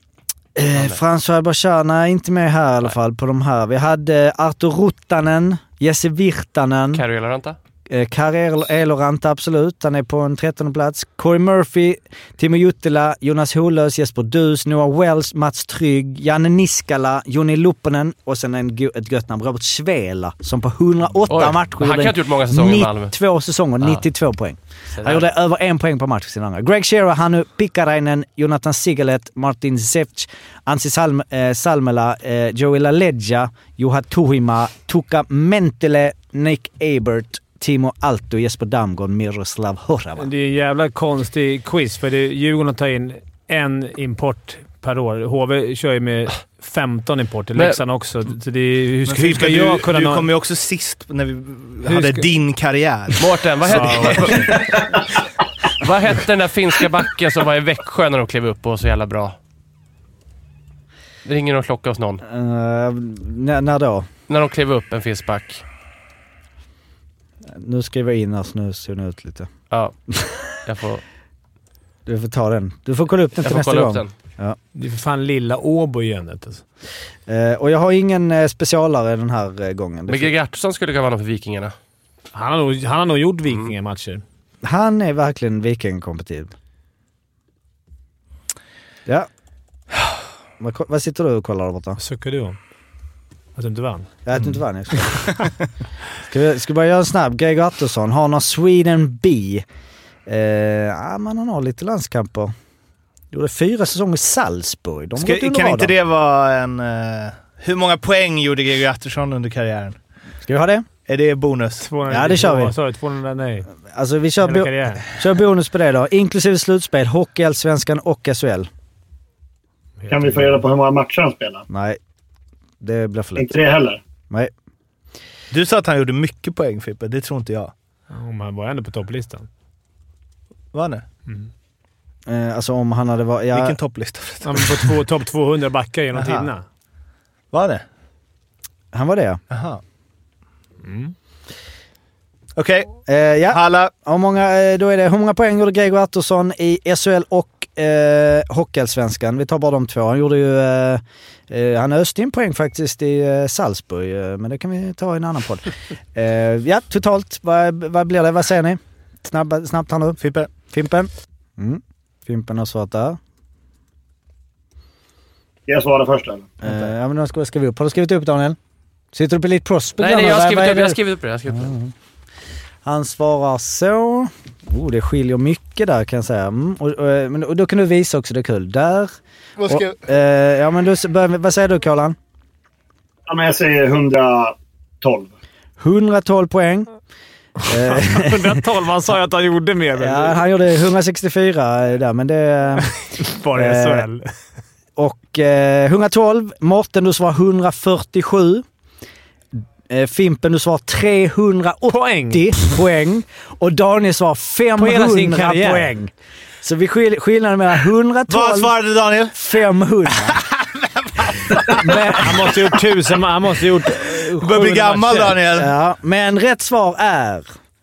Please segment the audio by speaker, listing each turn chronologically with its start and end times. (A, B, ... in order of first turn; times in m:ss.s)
0:00.6-0:07.0 A
0:00.6-0:01.0 B
0:06.9-0:07.6 B
0:07.9-0:40.3 A
0:21.3-0:23.1 B
0:25.0-0:25.2 B
0:40.2-0:50.3 C
0:49.0-0:54.8 D
0:51.8-0:52.3 C
0:53.2-0:54.9 B
0:53.7-0:54.5 C
0:55.8-0:59.4 B
1:01.2-1:02.2 B
1:02.2-1:04.1 A
1:04.3-1:05.6 B
1:07.5-1:09.5 A
1:09.7-1:09.9 B
1:10.1-1:10.4 A
1:10.6-1:11.0 B
1:12.0-1:14.6 A
1:13.4-1:14.1 B
1:14.7-1:16.6 C
1:17.3-1:20.3 A
1:20.1-1:21.7 B
1:22.3-1:24.2 C
1:24.6-1:26.5 A
1:30.6-1:32.0 A
1:32.0-1:32.6 C
1:33.6-1:34.2 C
1:34.2-1:35.3 A
1:36.2-1:39.6 A
1:40.3-1:42.5 A
1:43.3-1:45.9 A
1:45.2-1:50.0 D
1:50.4-1:50.9 A
1:51.1-1:51.9 D
1:51.8-1:53.7 C
1:52.1-1:52.7 A
1:53.9-1:58.7 A
1:54.4-1:55.0 C
2:00.0-2:00.4 C
2:00.1-2:01.6 E
2:01.7-2:02.0 A
2:02.8-2:03.5 A
2:03.4-2:04.0 E
2:05.5-2:07.7 D
2:08.1-2:09.5 C
2:10.7-2:11.0 D
2:12.3-2:13.8 A
2:13.5-2:14.9 D
2:14.4-2:16.6 C
2:16.1-2:16.5 D
2:17.5-2:17.8 D
2:18.9-2:19.4 A
2:19.5-2:19.8 D
2:20.8-2:21.1 C
2:22.6-2:23.9 D
2:23.0-2:43.2 A
2:40.2-2:40.5 D
2:45.7-2:46.6 E
2:46.6-2:48.6 A
2:46.6-2:46.9 D
2:49.1-2:51.0 A
2:50.0-2:51.7 B
2:51.5-2:51.9 A
2:52.8-3:02.2 A
2:59.6-2:59.9 D
3:03.3-3:05.3 E
3:05.8-3:06.9 A
3:07.6-3:08.6 A
3:07.8-3:10.4 C
3:10.0-3:12.9 A
3:13.2-3:14.2 C
3:13.5-3:14.1 A
3:15.0-3:18.6 A
3:19.9-3:28.7 A
3:21.9-3:22.5 C
3:24.8-3:25.9 C
3:28.3-3:29.4 D
3:29.3-3:30.4 A
3:30.2-3:32.1 D
3:31.7-3:32.5 A
3:32.0-3:35.4 C
3:34.0-3:35.7 D
3:35.5-3:37.4 A